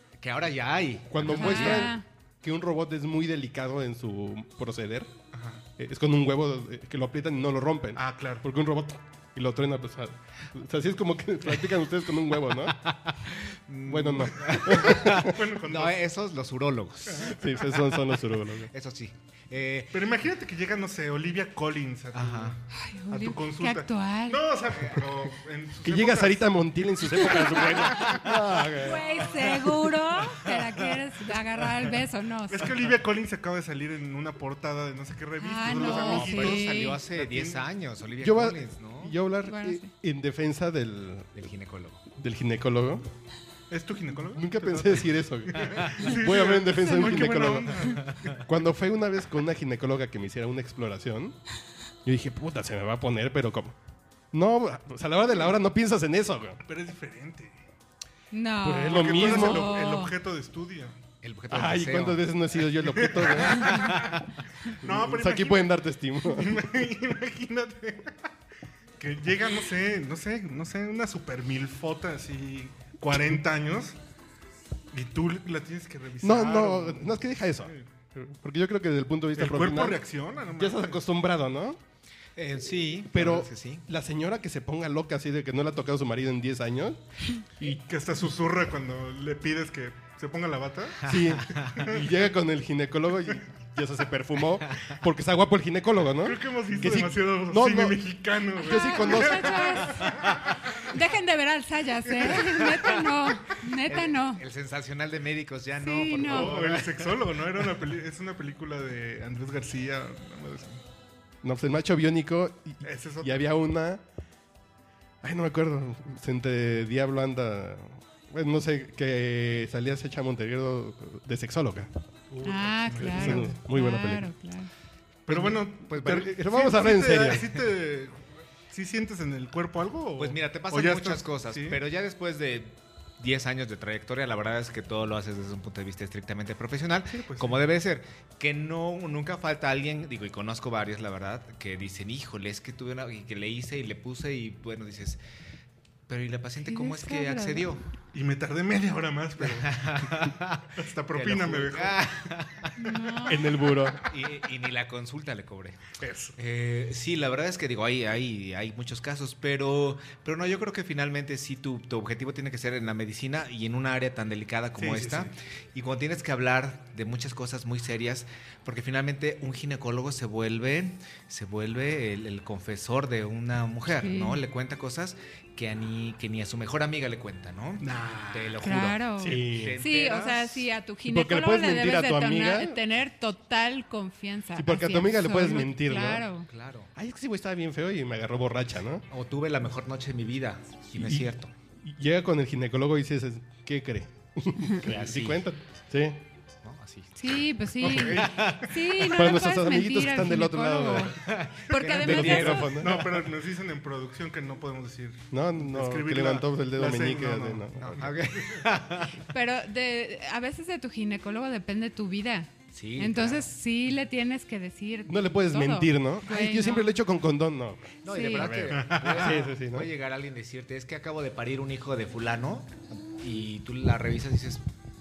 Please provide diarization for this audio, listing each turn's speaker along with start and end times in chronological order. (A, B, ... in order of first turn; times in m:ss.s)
0:00.2-0:01.9 A
0:01.1-0:05.1 B
0:01.3-0:02.0 C
0:05.3-0:05.6 D
0:05.8-0:12.8 B
0:07.9-0:08.4 D
0:12.7-0:20.0 A
0:13.8-0:15.4 B
0:14.9-0:16.0 D
0:17.1-0:17.4 D
0:17.2-0:18.7 B
0:19.9-0:26.6 D
0:22.1-0:22.6 A
0:22.7-0:24.4 C
0:25.8-0:29.1 B
0:27.4-0:28.2 D
0:28.0-0:30.8 A
0:28.7-0:32.7 C
0:32.5-0:37.6 D
0:35.4-0:37.0 C
0:35.6-0:39.2 A
0:38.2-0:41.3 B
0:39.5-0:39.9 C
0:41.3-0:42.0 A
0:42.1-0:43.1 B
0:43.7-0:48.4 D
0:44.3-0:51.4 B
0:52.0-0:53.8 B
0:54.3-0:56.6 B
0:56.6-0:57.6 D
0:58.3-1:00.2 C
0:58.6-0:59.8 B
0:58.8-1:01.0 D
1:01.2-1:02.3 A
1:01.5-1:04.0 B
1:02.8-1:08.2 D
1:03.4-1:04.1 A
1:04.8-1:06.7 B
1:09.0-1:14.0 D
1:14.9-1:17.9 D
1:16.2-1:21.8 B
1:19.4-1:21.0 D
1:22.4-1:23.8 A
1:23.1-1:27.0 B
1:27.6-1:32.1 D
1:31.0-1:39.6 B
1:31.1-1:31.7 A
1:36.2-1:40.9 D
1:38.6-1:40.1 C
1:40.8-1:44.4 C
1:42.1-1:42.7 D
1:42.4-1:47.6 A
1:45.8-1:46.5 C
1:46.2-1:50.8 D
1:51.4-1:54.0 B
1:52.8-1:53.5 D
1:55.2-2:01.9 B
2:02.3-2:03.5 D
2:02.4-2:04.7 C
2:03.0-2:04.3 B
2:05.3-2:06.3 A
2:05.3-2:11.8 D
2:05.9-2:07.5 B
2:10.2-2:25.2 A
2:17.1-2:17.6 D
2:26.1-2:27.8 A
2:26.6-2:27.7 C
2:28.1-2:32.2 D
2:29.4-2:32.8 A
2:32.8-2:33.5 C
2:33.2-2:34.1 B
2:33.9-3:00.7 A
2:36.0-2:36.3 D
2:44.8-2:45.3 D
2:54.0-2:54.4 C
2:57.8-2:58.8 D
2:58.6-3:06.5 C
2:59.2-2:59.8 B
3:01.0-3:02.8 B
3:04.6-3:06.3 B
3:06.5-3:06.9 A
3:06.9-3:09.0 B
3:09.1-3:11.5 A
3:10.9-3:16.2 B
3:14.8-3:15.4 A
3:16.6-3:19.3 A
3:17.2-3:22.9 C
3:17.8-3:18.3 B
3:19.1-3:21.2 B
3:21.2-3:23.2 A
3:21.7-3:23.2 B
3:22.3-3:28.7 D
3:25.3-3:28.1 B
3:27.8-3:29.2 A
3:29.2-3:36.9 C
3:32.7-3:33.5 A
3:35.1-3:38.0 B
3:38.0-3:44.6 A
3:38.1-3:38.6 C
3:38.5-3:39.9 B
3:38.7-3:39.3 D